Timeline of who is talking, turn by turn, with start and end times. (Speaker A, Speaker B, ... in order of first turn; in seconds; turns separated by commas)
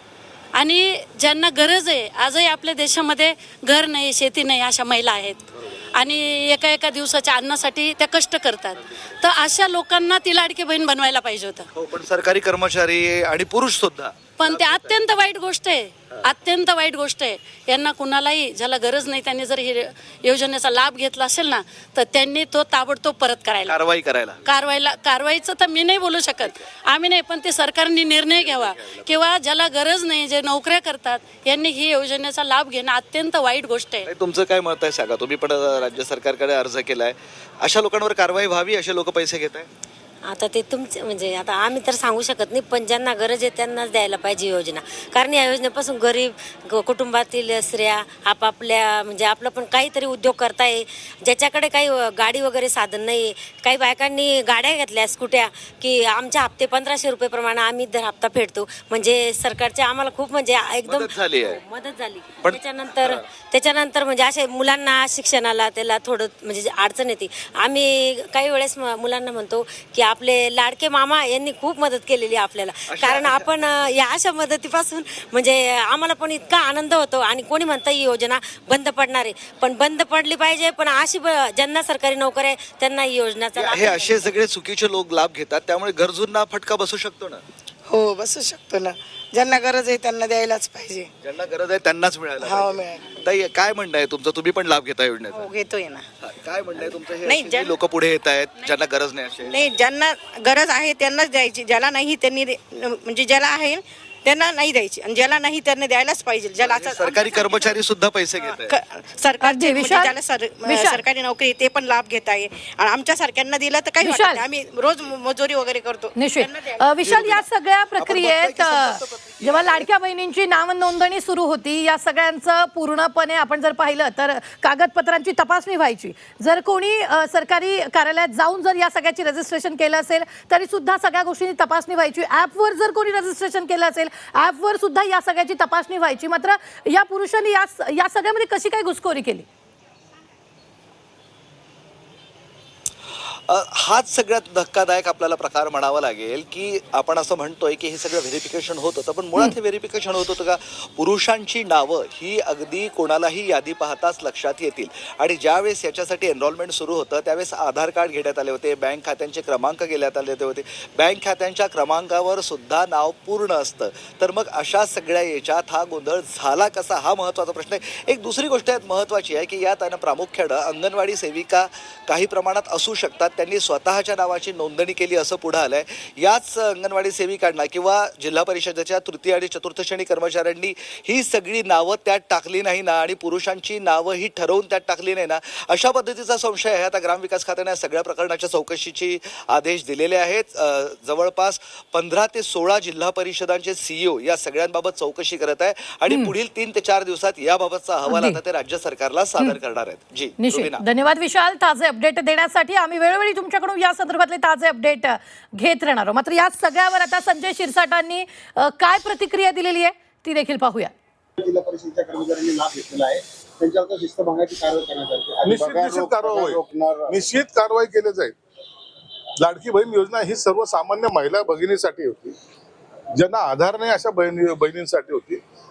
Speaker A: 0.6-11.7, Speaker B: 11.7-15.0, Speaker A: 14.4-23.8, Speaker B: 23.6-24.4, Speaker A: 24.4-34.1, Speaker B: 28.4-29.1, Speaker B: 34.0-39.7, Speaker C: 40.2-84.3, Speaker B: 60.8-61.6, Speaker B: 62.4-63.2, Speaker B: 72.9-73.5, Speaker B: 83.5-87.4, Speaker D: 87.9-91.1, Speaker B: 91.2-95.5, Speaker D: 92.4-93.0, Speaker D: 95.4-96.0, Speaker B: 96.2-99.7, Speaker D: 97.2-97.7, Speaker D: 99.5-107.7, Speaker B: 106.6-108.7, Speaker D: 108.4-116.8, Speaker E: 109.4-111.0, Speaker E: 114.0-114.4, Speaker E: 116.1-139.5, Speaker B: 117.0-117.4, Speaker B: 118.0-119.9, Speaker B: 143.3-200.8, Speaker E: 196.1-196.3, Speaker E: 198.1-198.4, Speaker E: 200.4-210.9, Speaker F: 211.4-217.2, Speaker G: 215.4-218.3, Speaker G: 219.4-222.3, Speaker G: 223.2-225.4